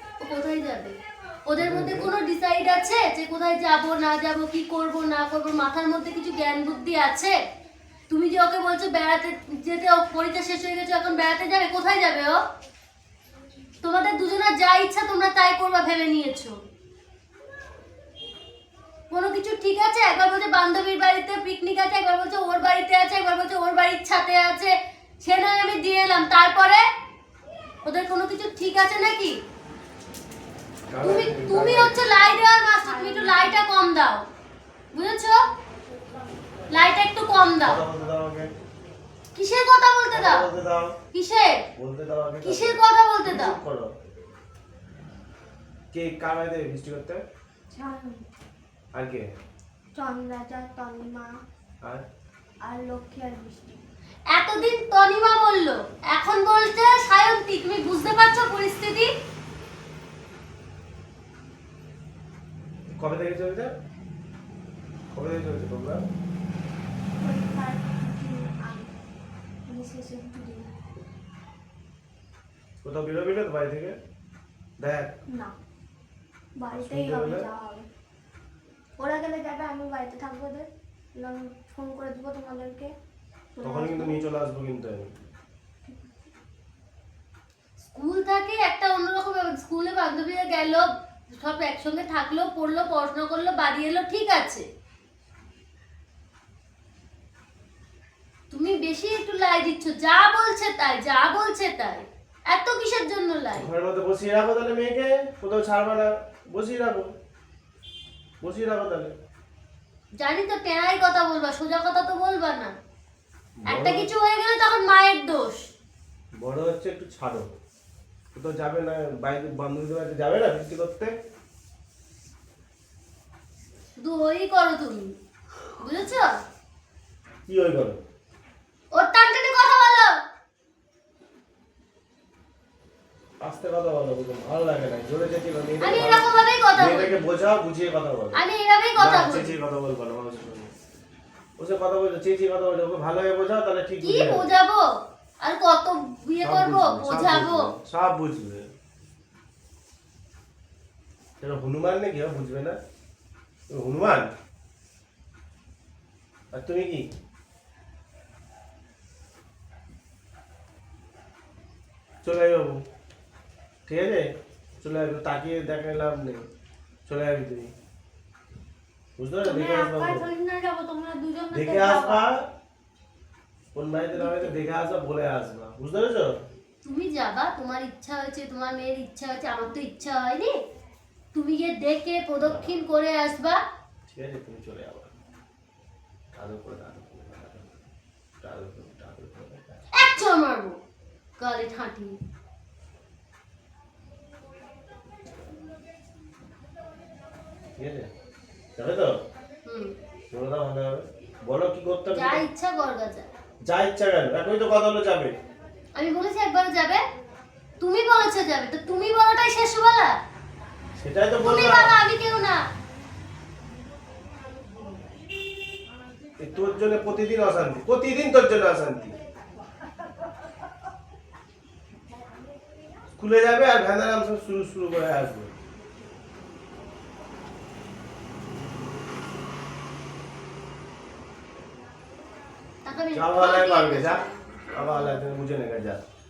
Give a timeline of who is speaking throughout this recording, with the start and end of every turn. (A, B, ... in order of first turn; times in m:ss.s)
0:00.2-0:00.9 A
0:01.5-0:07.3 A
0:01.6-0:02.1 B
0:08.1-0:12.4 A
0:13.8-0:16.6 A
0:19.1-0:26.8 A
0:27.8-0:29.4 A
0:30.9-0:32.0 B
0:31.0-0:34.2 A
0:32.8-0:33.6 C
0:34.9-0:35.4 A
0:36.7-0:37.8 A
0:37.6-0:38.5 B
0:39.3-0:40.4 A
0:40.1-0:40.9 B
0:41.1-0:41.6 A
0:41.8-0:43.9 B
0:42.4-0:43.6 A
0:45.9-0:47.2 B
0:47.7-0:48.2 C
0:49.0-0:49.3 B
0:49.9-0:51.3 C
0:52.6-0:53.8 C
0:54.3-0:59.1 A
1:03.0-1:03.7 B
1:05.1-1:06.0 B
1:07.2-1:08.9 C
1:09.7-1:10.7 C
1:12.8-1:13.9 B
1:14.8-1:15.1 B
1:16.6-1:17.9 C
1:16.7-1:17.5 B
1:19.0-1:22.9 C
1:23.5-1:24.2 C
1:23.6-1:25.1 B
1:27.9-1:34.6 A
1:38.5-1:43.6 A
1:43.6-1:47.1 B
1:48.4-1:49.1 B
1:50.2-1:52.7 A
1:53.6-1:54.1 B
1:53.7-1:55.6 A
1:56.4-1:57.5 B
1:58.3-2:01.1 B
2:04.0-2:05.1 A
2:05.8-2:06.3 A
2:07.5-2:08.0 B
2:08.9-2:10.1 A
2:13.4-2:18.4 B
2:15.8-2:17.2 A
2:18.3-2:19.5 A
2:19.0-2:20.7 B
2:21.6-2:24.4 B
2:24.0-2:24.8 A
2:25.4-2:27.7 A
2:26.4-2:28.7 B
2:31.4-2:32.8 B
2:33.7-2:34.3 B
2:36.5-2:37.0 B
2:42.2-2:42.8 B
2:43.9-2:44.2 B
2:44.8-2:46.4 B
2:47.0-2:47.7 B
2:49.2-2:50.3 B
2:49.4-2:52.2 A
2:51.5-2:52.5 B
2:53.7-2:56.4 B
2:54.1-2:54.5 A
2:56.8-3:00.5 A
3:01.3-3:03.6 A
3:02.4-3:02.8 B
3:04.1-3:05.1 B
3:06.3-3:07.8 B
3:08.4-3:09.8 B
3:09.9-3:10.8 A
3:11.4-3:12.2 A
3:17.8-3:18.1 B
3:18.8-3:19.1 B
3:19.6-3:19.9 A
3:20.3-3:22.4 B
3:22.1-3:23.3 A
3:23.7-3:25.3 B
3:25.9-3:27.0 A
3:27.8-3:30.1 A
3:31.0-3:32.0 B
3:31.4-3:32.6 A
3:36.4-3:39.1 B
3:43.2-3:45.5 B
3:52.8-3:55.3 A
3:53.1-3:54.2 B
3:54.7-3:56.0 B